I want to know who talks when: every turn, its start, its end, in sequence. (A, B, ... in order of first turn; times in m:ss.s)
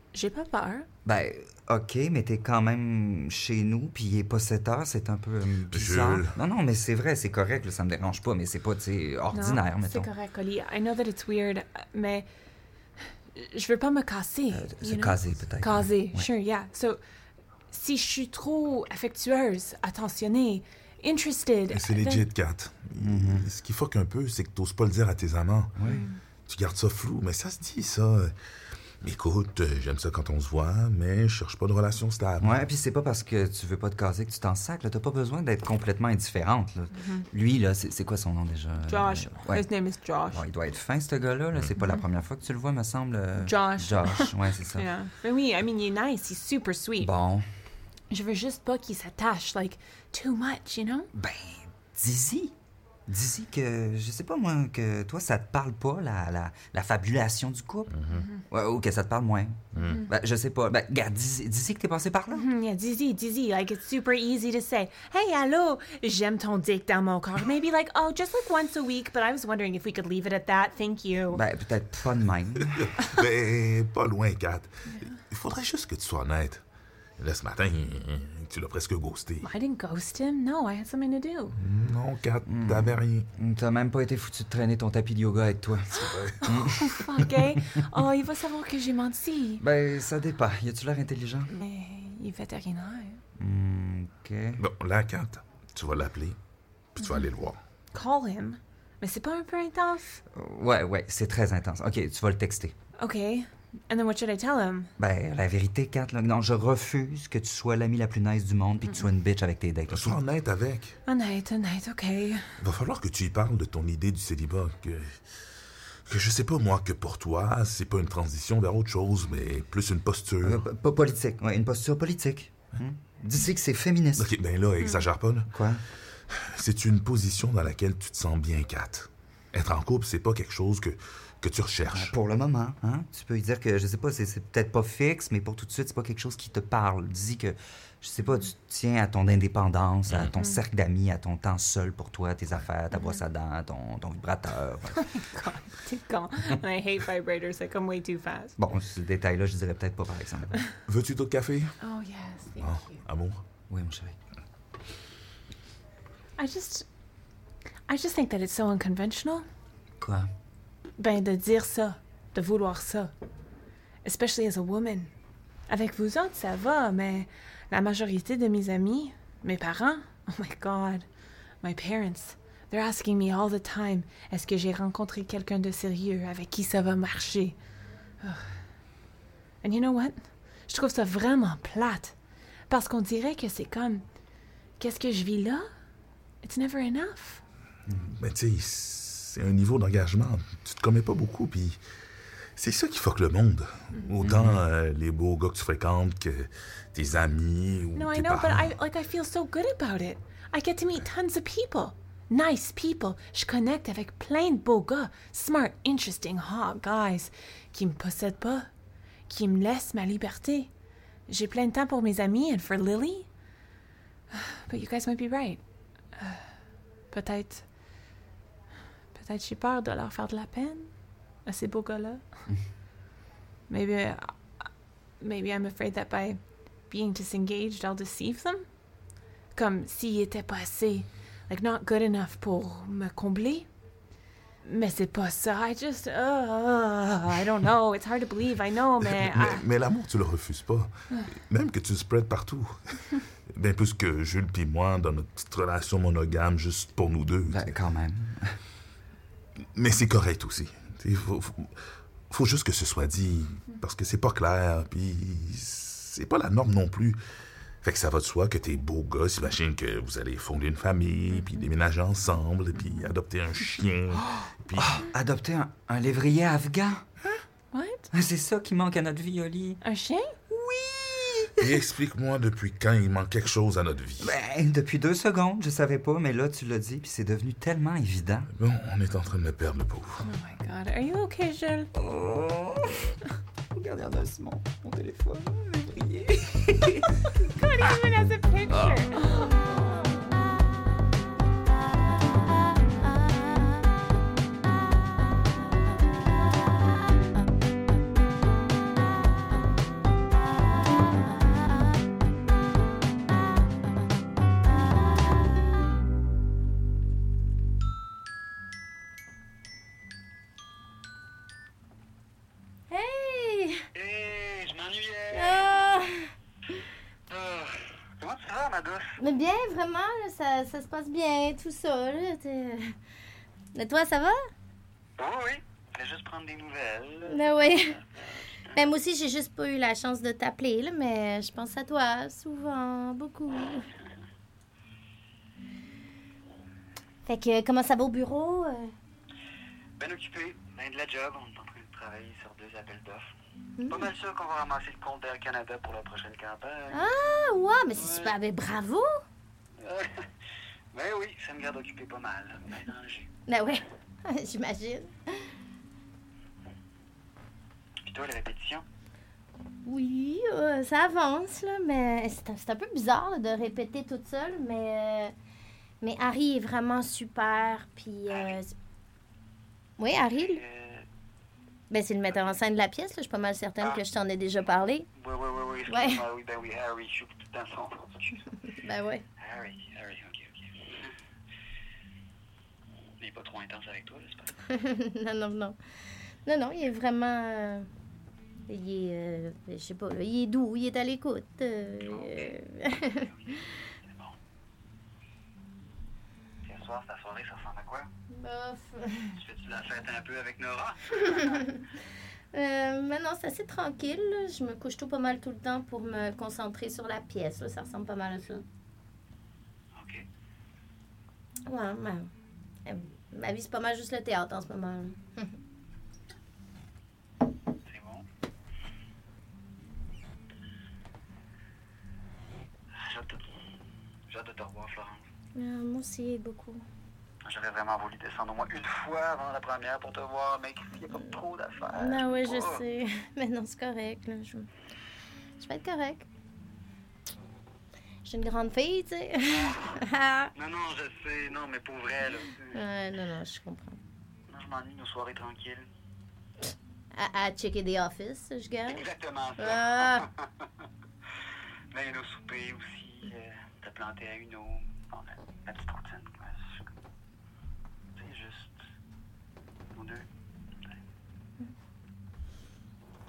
0:00.1-0:00.9 A
0:01.0-0:10.1 B
0:05.7-0:06.4 C
0:09.3-0:12.3 A
0:13.3-0:17.0 A
0:14.5-0:16.3 B
0:17.7-0:22.3 A
0:21.7-0:25.8 C
0:23.0-0:23.5 B
0:25.8-0:26.0 B
0:25.8-0:26.2 A
0:26.5-0:28.4 C
0:29.0-0:32.7 C
0:32.4-0:39.7 B
0:36.9-0:37.3 A
0:38.9-0:40.4 A
0:40.3-0:44.9 B
0:43.4-0:47.1 A
0:47.0-0:47.5 B
0:48.1-0:51.1 A
0:51.1-0:52.5 B
0:53.1-0:58.0 B
0:57.9-0:58.3 C
0:58.1-0:58.4 A
0:58.5-1:02.5 B
0:59.7-1:00.0 C
1:02.3-1:11.4 A
1:11.3-1:12.9 B
1:12.6-1:16.6 C
1:17.2-1:19.5 C
1:19.4-1:21.6 A
1:21.6-1:23.3 C
1:22.5-1:27.3 B
1:25.9-1:26.4 C
1:26.4-1:29.6 A
1:29.6-1:31.6 B
1:31.6-1:33.2 A
1:33.4-1:34.6 B
1:34.6-1:36.4 C
1:37.0-1:37.6 C
1:37.9-1:40.2 A
1:40.3-1:42.8 B
1:43.0-1:44.9 A
1:45.0-1:50.2 B
1:49.9-1:51.0 C
1:51.1-1:52.5 A
1:52.6-1:55.2 C
1:56.1-2:00.6 C
2:00.4-2:04.3 B
2:04.2-2:05.5 C
2:05.5-2:05.8 B
2:06.3-2:12.2 C
2:11.9-2:25.2 B
2:25.0-2:28.6 A
2:28.6-2:30.6 B
2:30.9-2:31.8 C
2:31.8-2:33.0 A
2:32.6-2:33.4 C
2:33.7-2:34.2 B
2:36.4-2:36.9 A
2:37.9-2:39.5 A
2:40.0-2:40.3 B
2:41.0-2:43.1 A
2:44.0-2:45.1 A
2:45.7-2:51.1 A
2:51.6-2:57.6 A
2:58.2-2:58.6 A
2:59.6-3:02.1 A
3:02.7-3:04.0 A
3:04.8-3:05.7 A
3:06.4-3:07.4 A
3:07.9-3:08.2 B
3:08.2-3:11.8 C
3:12.6-3:18.8 C
3:14.2-3:14.6 B
3:18.0-3:28.7 A
3:29.3-3:30.7 A
3:31.3-3:33.3 A
3:34.3-3:36.6 A
3:37.1-3:37.7 A
3:39.1-3:42.3 A
3:43.7-3:44.6 A
3:45.2-3:48.8 A
3:49.5-3:53.7 A
3:54.6-3:59.6 A
3:59.0-4:07.7 C
4:07.5-4:08.6 B
4:09.8-4:17.2 C
4:17.8-4:25.1 C
4:24.8-4:27.1 B
4:27.7-4:28.1 A
4:28.1-4:29.8 B
4:29.8-4:30.4 A
4:30.5-4:31.7 B
4:31.6-4:34.3 C
4:34.2-4:38.5 B
4:38.6-4:40.2 C
4:40.2-4:41.9 A
4:42.0-4:43.2 B
4:43.7-4:47.1 B
4:47.4-4:49.5 A
5:12.9-5:13.8 D
5:14.0-5:15.7 E
5:15.3-5:16.3 D
5:17.3-5:19.2 E
5:19.2-5:23.0 D
5:23.7-5:24.5 D
5:25.2-5:28.9 E
5:27.3-5:28.0 D
5:28.7-5:33.9 D
5:37.3-5:38.9 D
5:40.0-5:43.3 E
5:43.8-5:44.1 D
5:43.9-5:47.1 E
5:46.9-5:49.2 D
5:48.0-5:48.4 E
5:49.8-5:50.3 E
5:50.9-5:53.3 E
5:53.5-5:55.4 D
5:58.0-5:58.8 E
5:59.8-6:05.3 D
6:06.0-6:08.8 D
6:08.3-6:08.6 E
6:10.0-6:10.6 D
6:10.4-6:11.1 E
6:11.9-6:15.1 D
6:15.2-6:18.4 E
6:15.9-6:16.2 D
6:18.7-6:19.2 D
6:19.4-6:21.1 E
6:23.2-6:24.6 E
6:24.7-6:25.8 D
6:26.4-6:27.9 D
6:28.7-6:33.3 D
6:32.0-6:34.4 E
6:36.6-6:38.1 E
6:38.3-6:39.4 D
6:39.4-6:41.6 E
6:41.2-6:41.8 D
6:42.5-6:48.6 D
6:50.0-6:50.3 E
6:51.7-6:52.3 D
6:52.8-6:55.5 D
6:57.9-6:58.2 E
7:02.9-7:03.5 E
7:04.3-7:05.2 E
7:05.6-7:06.8 D
7:07.4-7:12.8 E
7:12.0-7:14.7 D
7:15.6-7:16.3 D
7:18.2-7:20.5 D
7:19.5-7:19.9 E
7:20.6-7:22.8 E
7:22.7-7:24.0 D
7:24.5-7:25.9 E
7:27.1-7:29.0 D
7:28.9-7:30.7 E
7:29.6-7:30.3 D
7:31.9-7:36.9 E
7:38.2-7:38.7 E
7:39.9-7:40.3 E